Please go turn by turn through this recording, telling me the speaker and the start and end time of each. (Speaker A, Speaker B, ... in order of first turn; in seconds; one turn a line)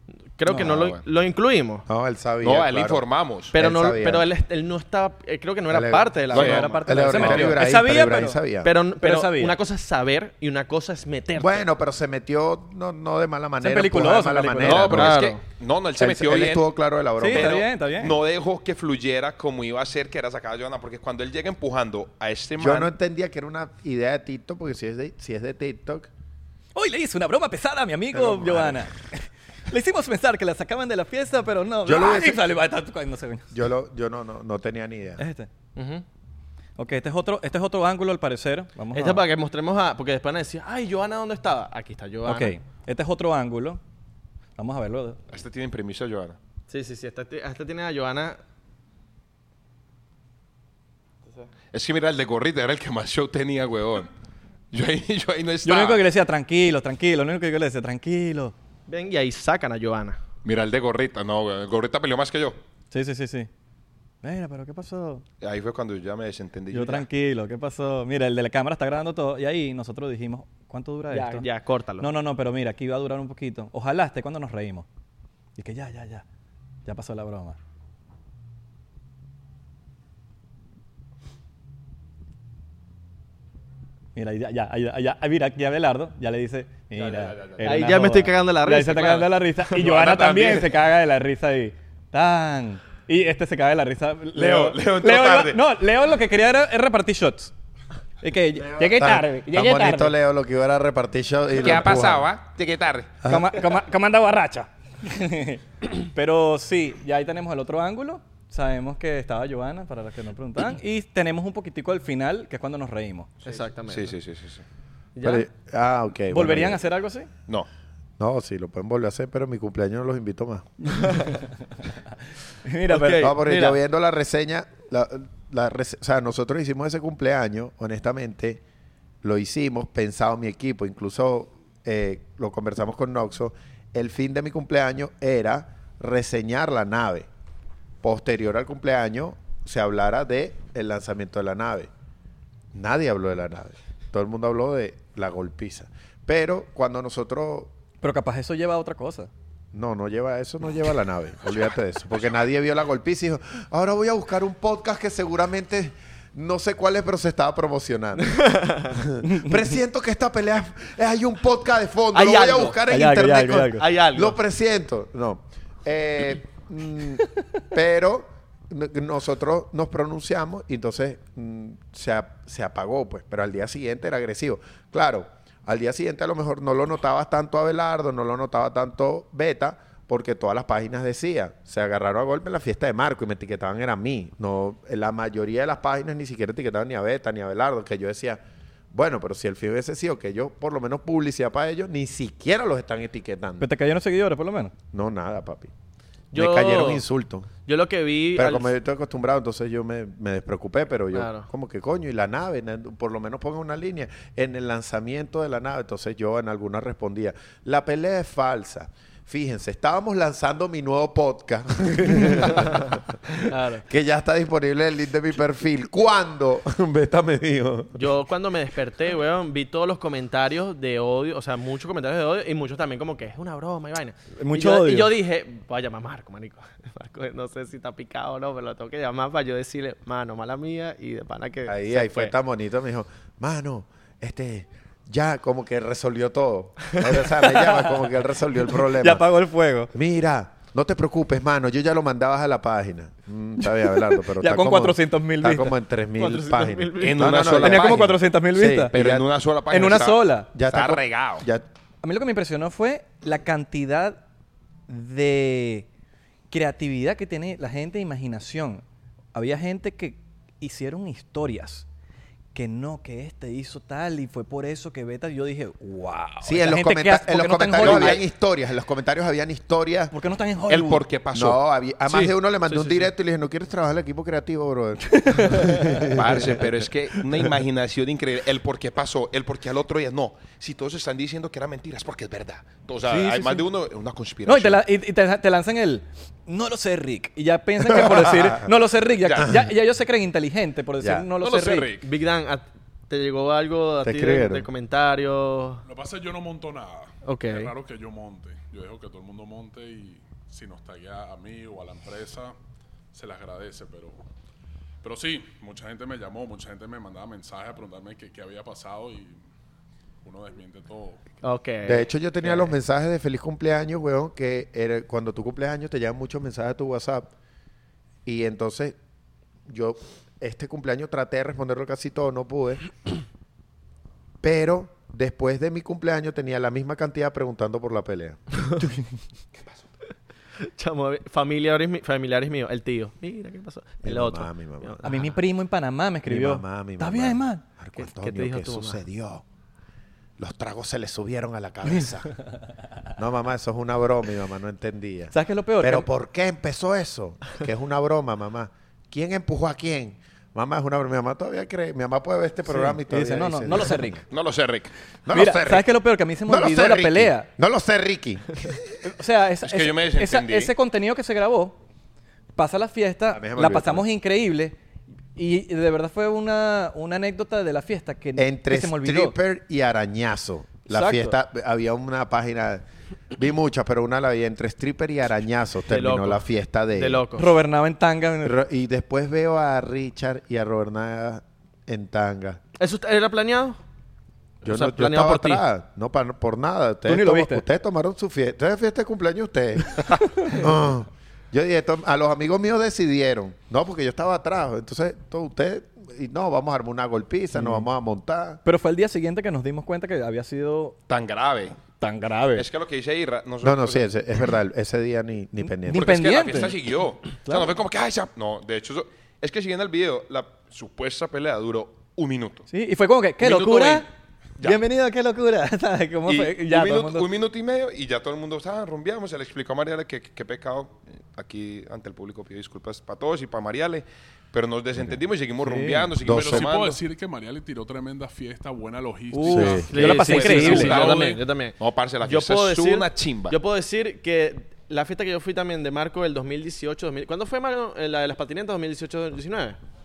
Speaker A: 0.4-1.9
Speaker B: 0.5-1.0
Speaker C: 1.9-4.3
Speaker B: 2.4-3.5
Speaker A: 3.5-7.7
Speaker C: 5.7-8.7
Speaker B: 6.3-7.4
Speaker D: 6.3-8.4
Speaker A: 8.6-11.7
Speaker D: 9.0-9.5
Speaker C: 11.3-15.2
Speaker D: 13.6-15.1
Speaker B: 14.6-16.7
Speaker A: 14.9-15.4
Speaker C: 16.0-17.6
Speaker D: 17.2-18.1
Speaker B: 17.3-22.9
Speaker C: 22.6-26.1
Speaker D: 26.7-33.5
Speaker C: 28.1-28.8
Speaker C: 31.8-32.4
Speaker C: 33.5-35.2
Speaker D: 35.2-35.5
Speaker A: 35.8-36.0
Speaker D: 36.8-39.2
Speaker A: 38.9-42.5
Speaker D: 42.2-43.8
Speaker D: 44.6-45.2
Speaker B: 45.3-46.4
Speaker A: 46.7-48.4
Speaker B: 51.7-54.1
Speaker B: 54.7-56.0
Speaker D: 55.6-58.5
Speaker A: 58.9-60.2
Speaker B: 60.4-62.6
Speaker D: 62.9-63.5
Speaker D: 64.2-65.2
Speaker B: 65.4-67.1
Speaker D: 66.7-71.5
Speaker A: 71.1-72.1
Speaker D: 72.0-74.8
Speaker D: 75.6-76.2
Speaker D: 76.8-77.6
Speaker D: 84.1-97.5
Speaker B: 87.0-87.8
Speaker A: 87.6-89.4
Speaker B: 89.8-90.7
Speaker B: 94.3-95.6
Speaker D: 98.2-100.1
Speaker C: 98.6-102.3
Speaker B: 101.6-103.1
Speaker C: 103.2-103.5
Speaker D: 103.2-113.6
Speaker A: 113.4-114.1
Speaker B: 113.9-114.6
Speaker A: 115.1-115.5
Speaker C: 115.2-116.8
Speaker D: 116.3-117.3
Speaker C: 118.2-121.0
Speaker D: 120.8-121.5
Speaker D: 122.6-123.8
Speaker A: 122.9-123.4
Speaker C: 123.2-128.6
Speaker C: 129.2-137.3
Speaker C: 138.0-141.9
Speaker C: 142.7-147.7
Speaker D: 148.0-149.3
Speaker C: 149.7-188.4
Speaker A: 158.2-159.0
Speaker A: 162.1-162.8
Speaker D: 162.8-163.8
Speaker A: 163.6-164.4
Speaker C: 188.9-193.7
Speaker D: 193.6-194.7
Speaker C: 194.9-195.7
Speaker A: 196.3-197.0
Speaker C: 196.3-197.5
Speaker A: 197.6-198.7
Speaker C: 198.3-218.0
Speaker A: 201.1-201.5
Speaker A: 213.5-213.8
Speaker A: 217.9-232.3
Speaker D: 224.3-225.1
Speaker C: 231.7-239.3
Speaker D: 237.4-238.1
Speaker D: 238.8-239.9
Speaker C: 239.9-249.3
Speaker D: 244.0-245.7
Speaker A: 246.2-247.3
Speaker B: 247.0-248.1
Speaker D: 247.6-248.9
Speaker B: 248.9-251.4
Speaker D: 249.7-250.5
Speaker C: 250.5-251.7
Speaker D: 252.0-254.2
Speaker D: 254.9-255.9
Speaker D: 256.5-258.8
Speaker D: 259.3-261.9
Speaker D: 262.5-268.2
Speaker C: 266.4-270.1
Speaker B: 267.8-268.2
Speaker D: 270.1-271.0
Speaker B: 270.7-271.6
Speaker C: 271.3-276.5
Speaker D: 272.1-272.3
Speaker A: 272.7-273.1
Speaker D: 275.1-276.2
Speaker B: 276.1-284.8
Speaker D: 283.1-283.5
Speaker D: 284.4-291.9
Speaker C: 287.9-288.7
Speaker B: 289.2-289.5
Speaker C: 291.0-291.3
Speaker B: 291.4-292.1
Speaker A: 292.0-295.8
Speaker C: 294.0-294.7
Speaker E: 295.8-302.5
Speaker A: 297.2-297.7
Speaker E: 303.1-304.2
Speaker E: 305.0-309.4
Speaker E: 310.2-311.2
Speaker A: 311.4-312.7
Speaker C: 311.8-317.3
Speaker C: 318.2-318.9
Speaker C: 319.7-323.1
Speaker C: 324.4-328.4
Speaker A: 330.6-335.3
Speaker C: 334.0-335.1
Speaker D: 335.0-337.6
Speaker C: 336.2-339.4
Speaker A: 338.0-339.0
Speaker C: 340.4-342.3
Speaker C: 343.2-354.2
Speaker D: 345.3-346.1
Speaker D: 352.6-354.2
Speaker B: 354.3-354.9
Speaker C: 355.2-355.9
Speaker D: 355.3-357.5
Speaker C: 356.4-358.9
Speaker D: 359.0-361.8
Speaker B: 359.6-360.7
Speaker D: 362.6-364.8
Speaker C: 363.3-364.1
Speaker D: 365.3-369.3
Speaker C: 368.4-372.8
Speaker D: 370.9-371.4
Speaker C: 373.3-377.2
Speaker A: 375.9-377.5
Speaker D: 377.3-378.6
Speaker C: 378.4-382.6
Speaker A: 382.8-383.8
Speaker A: 384.6-385.6
Speaker C: 384.6-398.6
Speaker D: 387.1-387.6
Speaker D: 390.2-390.7
Speaker D: 397.5-397.9
Speaker D: 398.6-401.0
Speaker B: 401.1-401.8
Speaker D: 402.0-402.7
Speaker B: 402.5-404.1
Speaker C: 403.6-406.3
Speaker D: 405.6-406.7
Speaker B: 405.9-412.7
Speaker D: 412.7-414.1
Speaker B: 413.4-414.1
Speaker D: 414.6-417.3
Speaker B: 416.3-427.0
Speaker D: 425.6-426.1
Speaker C: 426.2-426.7
Speaker E: 426.2-431.4
Speaker D: 429.3-431.0
Speaker C: 429.5-429.9
Speaker A: 429.9-439.8
Speaker B: 429.9-433.6